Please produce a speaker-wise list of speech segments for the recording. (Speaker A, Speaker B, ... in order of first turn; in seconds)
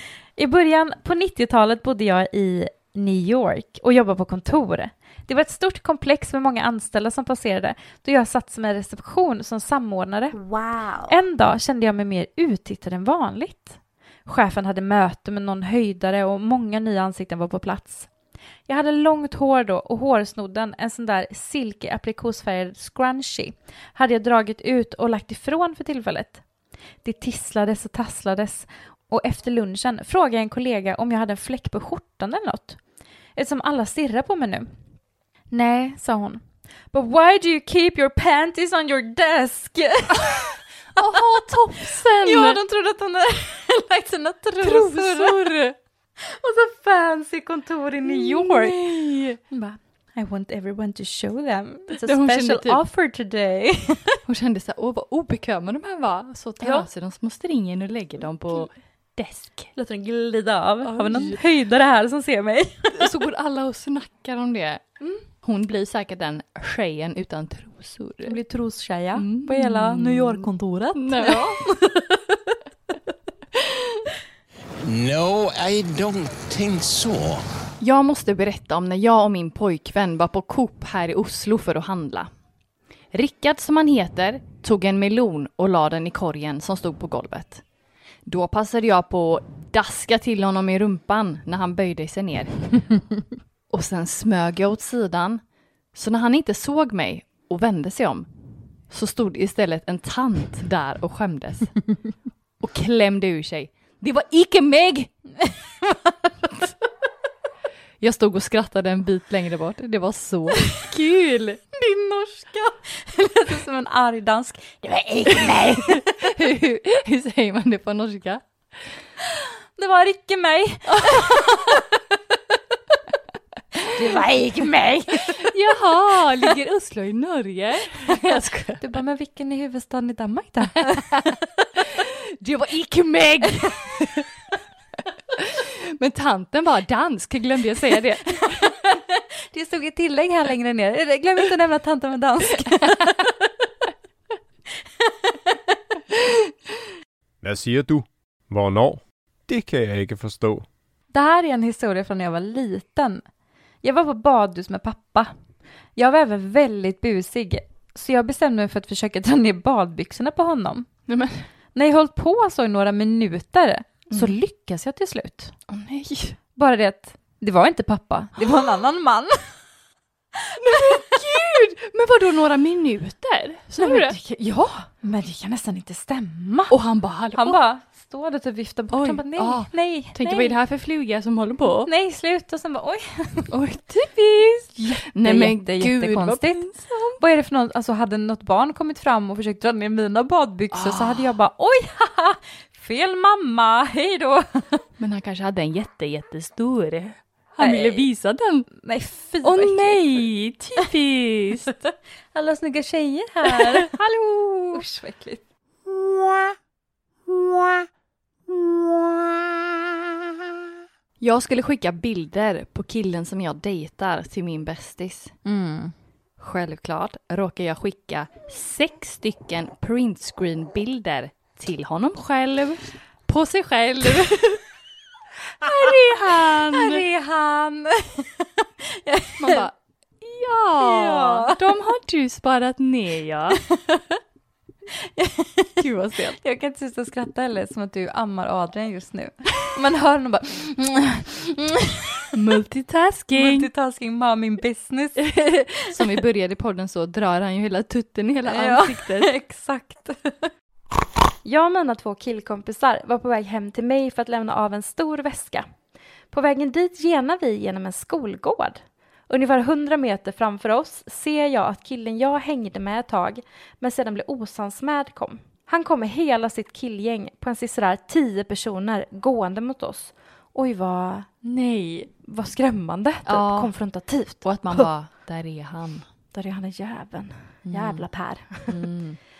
Speaker A: 0.4-18.1, 18.7-26.4, 27.0-32.8, 33.4-34.7, 35.5-36.4, 36.9-41.2, 42.2-45.5, 46.2-48.8, 49.5-54.2, 56.6-56.9, 59.8-63.1, 68.2-72.4, 105.4-106.1, 111.7-116.1, 119.3-121.8, 123.9-125.5, 128.1-131.3, 133.6-134.0, 138.4-143.2, 151.1-153.2, 153.8-155.3, 155.9-160.9, 161.7-165.5, 166.6-169.5, 173.8-176.7, 177.3-180.6, 181.8-183.5, 185.2-194.8, 197.6-198.1, 198.8-200.2, 202.3-204.0, 204.7-205.4, 215.4-215.9, 226.5-229.6, 230.8-231.6, 233.6-234.0, 235.0-242.3, 243.3-245.9, 248.5-250.5, 251.4-255.6, 256.3-271.3, 272.2-274.9, 276.3-278.7
Speaker B: 40.1-40.4, 41.0-42.6, 44.6-45.8, 48.0-49.4, 51.9-52.8, 54.2-59.7, 60.8-61.4, 62.9-64.9, 65.4-68.4, 69.2-71.6, 73.6-74.0, 77.8-82.3, 83.1-87.6, 88.2-92.6, 93.7-95.4, 95.9-98.3, 98.9-101.8, 102.6-105.1, 108.0-111.6, 115.6-118.4, 120.9-121.8, 125.3-128.8, 131.8-134.2, 135.3-138.7, 161.1-161.4, 165.7-166.4, 170.6-174.1, 176.7-177.6, 178.9-181.9, 183.5-187.2, 190.7-191.3, 195.0-198.7, 199.4-201.7, 203.5-204.8, 205.9-206.5, 207.3-207.8, 208.6-209.0, 211.2-215.3, 216.4-224.6, 225.6-227.0, 229.4-233.6, 235.8-236.4, 242.3-243.7, 245.2-249.3, 271.4-272.1, 273.2-273.7, 274.4-276.1, 277.6-278.1, 278.7-279.2
Speaker C: 74.8-77.5
Speaker D: 147.4-150.6